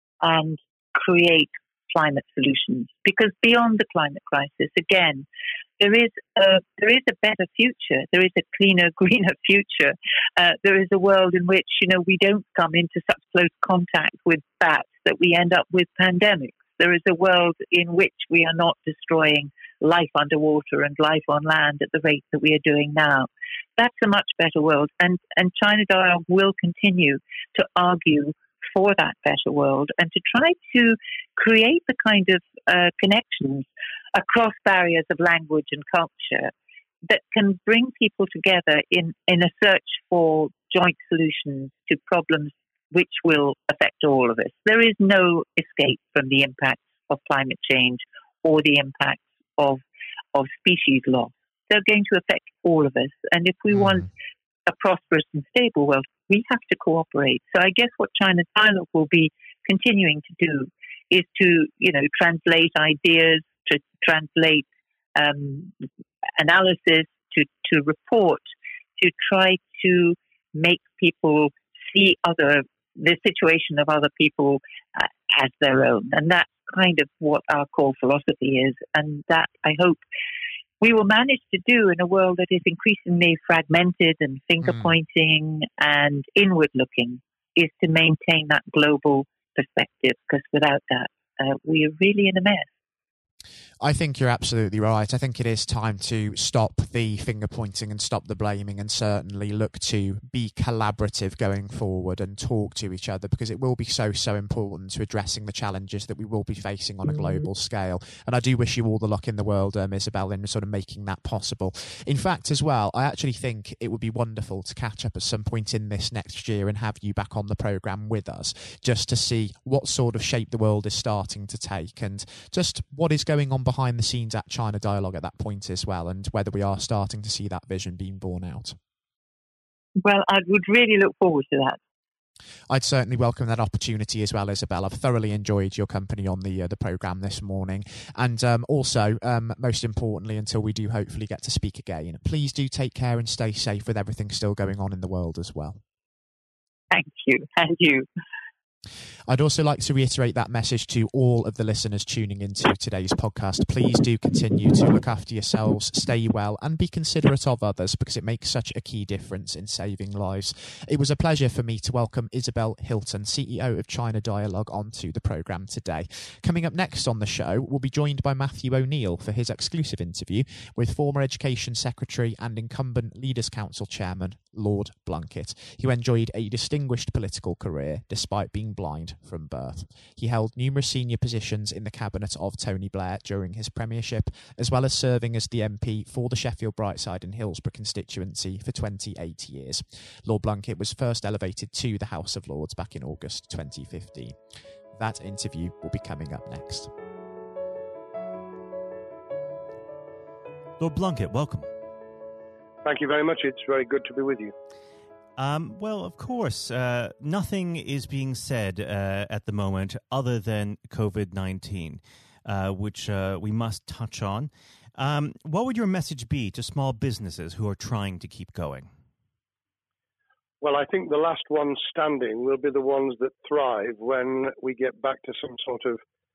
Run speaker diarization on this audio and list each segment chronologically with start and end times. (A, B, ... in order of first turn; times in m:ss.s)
0:00.2-0:05.2 A
0:05.8-0:36.5 A
0:37.0-0:49.8 A
0:50.3-0:54.1 A
0:54.6-1:05.7 A
1:06.4-1:08.4 A
1:09.0-1:20.0 A
1:20.8-1:32.7 A
1:33.8-2:08.8 B
2:10.0-2:11.8 A
2:12.7-2:25.8 B
2:26.9-2:28.1 A
2:29.3-3:14.4 B
3:15.0-3:16.9 B
3:20.8-3:21.7 C
3:22.8-3:24.5 D
3:25.4-3:38.9 C
3:40.6-3:46.0 D